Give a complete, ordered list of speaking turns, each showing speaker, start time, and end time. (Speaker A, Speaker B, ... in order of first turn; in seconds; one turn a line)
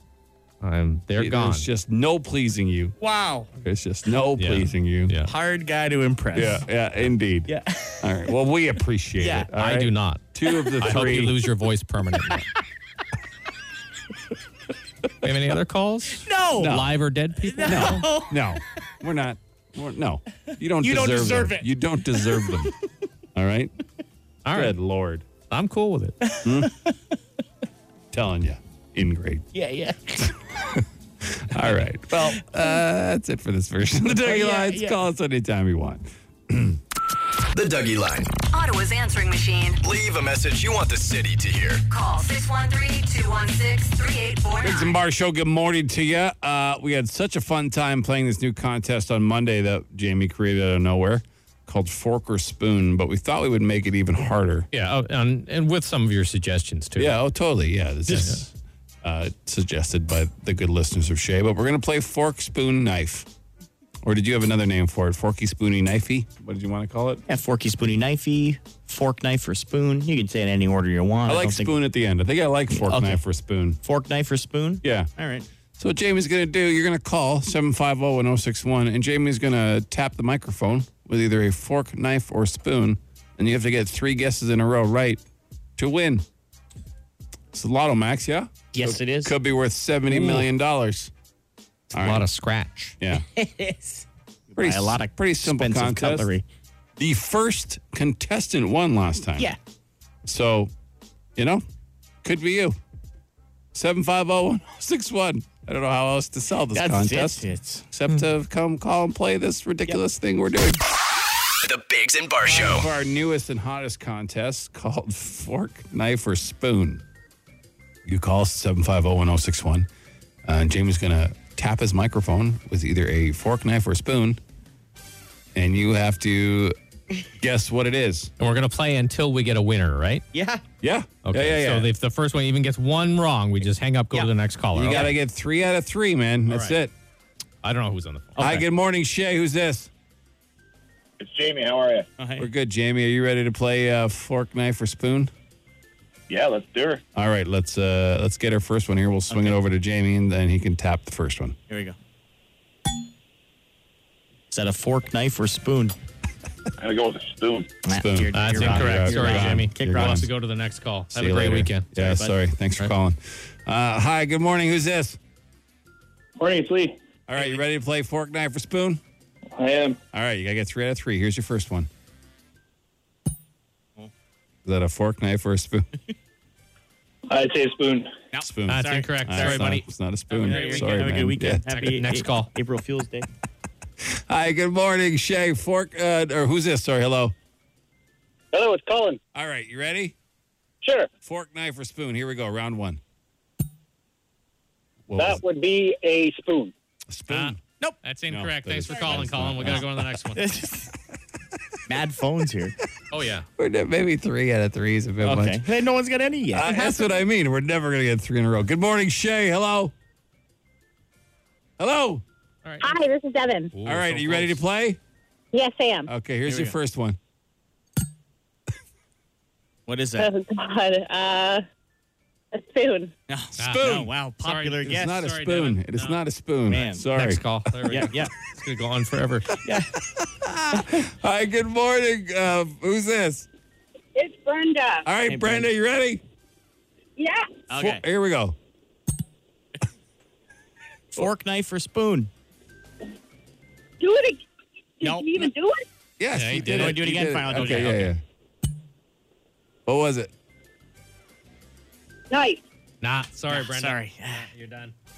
Speaker A: 0.6-1.7
Speaker B: 1.2-3.0
Speaker C: 3.0-3.5
Speaker B: 3.6-5.1
Speaker A: 4.4-5.3
Speaker C: 5.2-6.6
Speaker B: 6.3-11.4
Speaker C: 7.5-8.1
Speaker C: 9.2-9.5
Speaker A: 9.6-10.2
Speaker C: 10.5-11.0
Speaker A: 10.8-12.4
Speaker A: 15.2-18.1
Speaker C: 16.2-16.9
Speaker B: 16.6-16.9
Speaker C: 17.4-18.4
Speaker B: 17.6-22.7
Speaker C: 20.8-22.7
Speaker B: 23.4-23.7
Speaker A: 24.4-24.7
Speaker B: 24.5-25.2
Speaker A: 25.5-26.2
Speaker C: 26.2-26.9
Speaker B: 26.4-26.7
Speaker B: 28.1-29.5
Speaker C: 29.5-30.3
Speaker B: 30.8-36.8
Speaker C: 32.1-32.6
Speaker C: 34.1-35.0
Speaker D: 37.5-38.3
Speaker E: 38.5-39.8
Speaker D: 39.8-41.9
Speaker E: 41.9-45.0
Speaker B: 44.6-54.7
Speaker A: 54.7-57.2
Speaker B: 57.0-63.3
Speaker A: 58.1-58.4
Speaker B: 64.0-67.2
Speaker C: 67.3-71.8
Speaker B: 71.3-73.8
Speaker C: 72.7-73.2
Speaker C: 73.8-75.5
Speaker B: 74.8-75.1
Speaker B: 75.8-85.2
Speaker B: 85.8-86.2
Speaker B: 87.5-91.1
Speaker C: 88.7-89.3
Speaker C: 90.1-90.5
Speaker B: 91.9-92.3
Speaker A: 91.9-93.0
Speaker C: 93.1-96.4
Speaker B: 94.6-96.3
Speaker B: 97.0-99.5
Speaker B: 100.2-100.7
Speaker B: 101.4-101.6
Speaker B: 102.2-102.8
Speaker B: 103.7-110.8
Speaker C: 106.7-107.9
Speaker D: 111.6-112.9
Speaker B: 112.4-117.0
Speaker B: 118.0-119.9
Speaker B: 120.4-124.4
Speaker B: 125.5-126.7
Speaker B: 127.4-128.3
Speaker A: 128.4-130.2
Speaker C: 130.3-130.6
Speaker B: 130.8-131.9
Speaker A: 131.2-135.1
Speaker B: 134.7-136.9
Speaker C: 134.9-135.1
Speaker A: 137.6-138.6
Speaker B: 138.4-139.9
Speaker C: 142.2-142.5
Speaker B: 142.4-145.3
Speaker B: 147.1-151.6
Speaker C: 151.7-152.0
Speaker C: 154.5-155.9
Speaker C: 157.8-160.3
Speaker B: 157.9-160.3
Speaker A: 158.3-161.9
Speaker B: 161.1-165.2
Speaker C: 162.0-162.3
Speaker B: 167.3-169.0
Speaker B: 170.1-171.9
Speaker B: 174.6-175.9
Speaker C: 178.3-179.7
Speaker B: 178.4-181.7
Speaker A: 178.7-181.1
Speaker C: 180.4-183.3
Speaker A: 181.7-182.5
Speaker B: 184.0-187.3
Speaker F: 188.5-189.2
Speaker B: 189.3-190.1
Speaker F: 190.8-191.1
Speaker B: 191.2-193.0
Speaker B: 195.1-195.4
Speaker F: 195.2-196.7
Speaker B: 197.1-197.6
Speaker A: 197.3-200.5
Speaker B: 198.3-200.0
Speaker C: 198.9-200.9
Speaker C: 201.9-202.8
Speaker A: 203.1-203.4
Speaker B: 203.6-205.7
Speaker C: 205.2-207.1
Speaker B: 206.5-209.9
Speaker B: 211.8-212.2
Speaker A: 212.6-212.9
Speaker G: 212.8-213.7
Speaker A: 213.7-214.6
Speaker B: 213.8-215.0
Speaker G: 215.5-216.1
Speaker B: 216.1-217.2
Speaker C: 216.4-216.7
Speaker C: 219.9-220.3
Speaker G: 220.2-221.6
Speaker G: 222.6-223.1
Speaker C: 223.3-225.2
Speaker A: 223.6-223.8
Speaker B: 223.6-224.1
Speaker A: 224.4-226.2
Speaker B: 224.8-228.2
Speaker C: 226.7-227.1
Speaker A: 227.1-229.5
Speaker C: 227.9-228.3
Speaker C: 229.6-229.9
Speaker B: 229.7-233.5
Speaker C: 230.7-231.0
Speaker G: 234.2-235.0
Speaker B: 235.1-236.2
Speaker C: 235.2-235.7
Speaker G: 237.2-237.4
Speaker C: 237.7-238.0
Speaker B: 237.7-238.6
Speaker C: 241.1-242.3
Speaker G: 244.0-244.4
Speaker C: 245.0-245.5
Speaker G: 245.0-245.8
Speaker B: 246.2-248.2
Speaker A: 246.3-248.0
Speaker C: 246.6-248.1
Speaker B: 249.9-250.3
Speaker G: 252.3-252.6
Speaker A: 253.0-254.9
Speaker C: 253.5-254.5